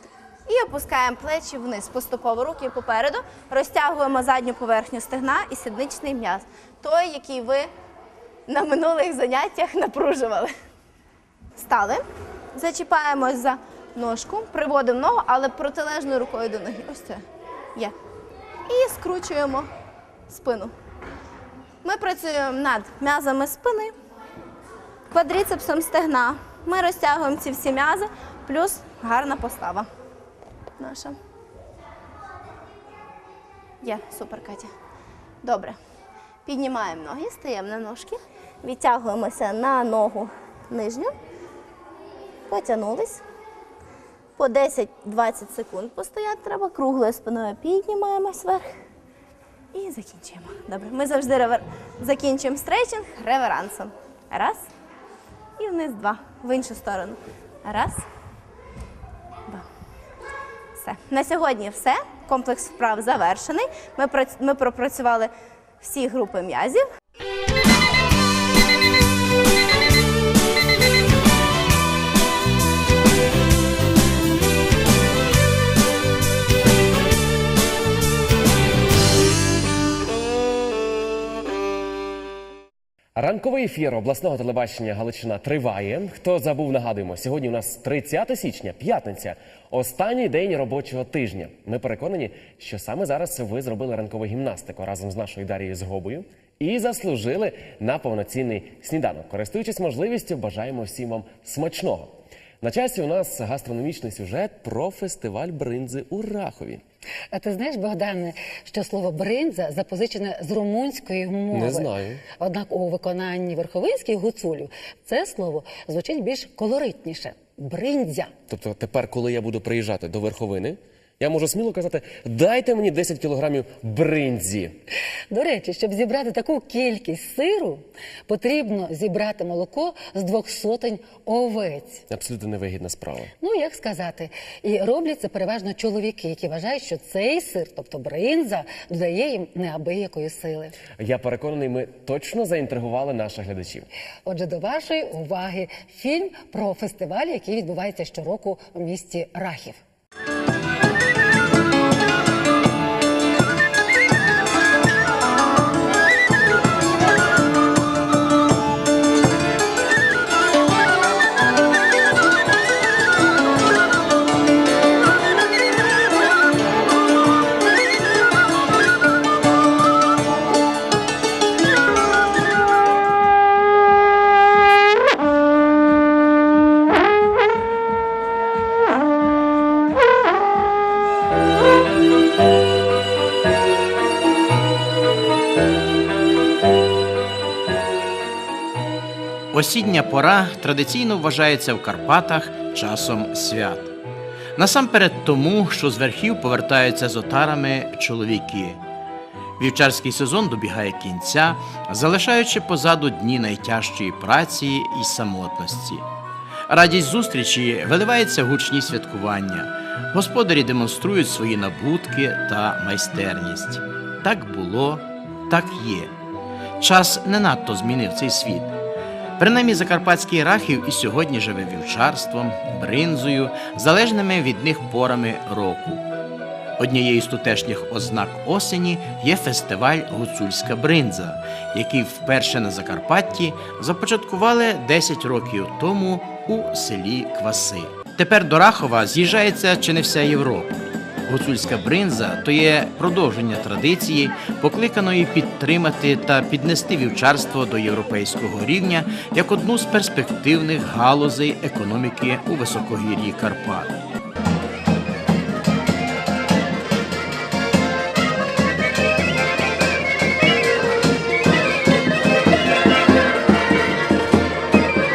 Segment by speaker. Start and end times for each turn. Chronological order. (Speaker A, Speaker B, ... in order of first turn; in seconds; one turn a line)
Speaker A: 0.5-7.7
Speaker A: 8.5-10.5
Speaker A: 11.6-12.0
Speaker A: 12.5-17.2
Speaker A: 18.7-19.7
Speaker A: 20.3-20.7
Speaker A: 21.8-23.9
Speaker A: 25.1-29.9
Speaker A: 30.8-31.1
Speaker A: 33.8-34.7
Speaker A: 35.4-35.8
Speaker A: 36.5-41.1
Speaker A: 42.5-43.2
Speaker A: 44.4-48.7
Speaker A: 49.7-54.6
Speaker A: 55.6-58.0
Speaker A: 60.8-66.8
Speaker B: 83.2-106.8
Speaker C: 107.3-118.3
Speaker B: 111.5-112.2
Speaker B: 118.5-124.7
Speaker C: 125.3-132.0
Speaker B: 132.1-133.3
Speaker C: 133.4-140.8
Speaker B: 140.9-143.9
Speaker C: 144.2-149.8
Speaker D: 189.5-193.9
Speaker D: 194.6-198.8
Speaker D: 199.6-206.0
Speaker D: 206.7-216.2
Speaker D: 216.8-218.8
Speaker D: 219.4-226.0
Speaker D: 226.8-240.7
Speaker D: 241.3-253.9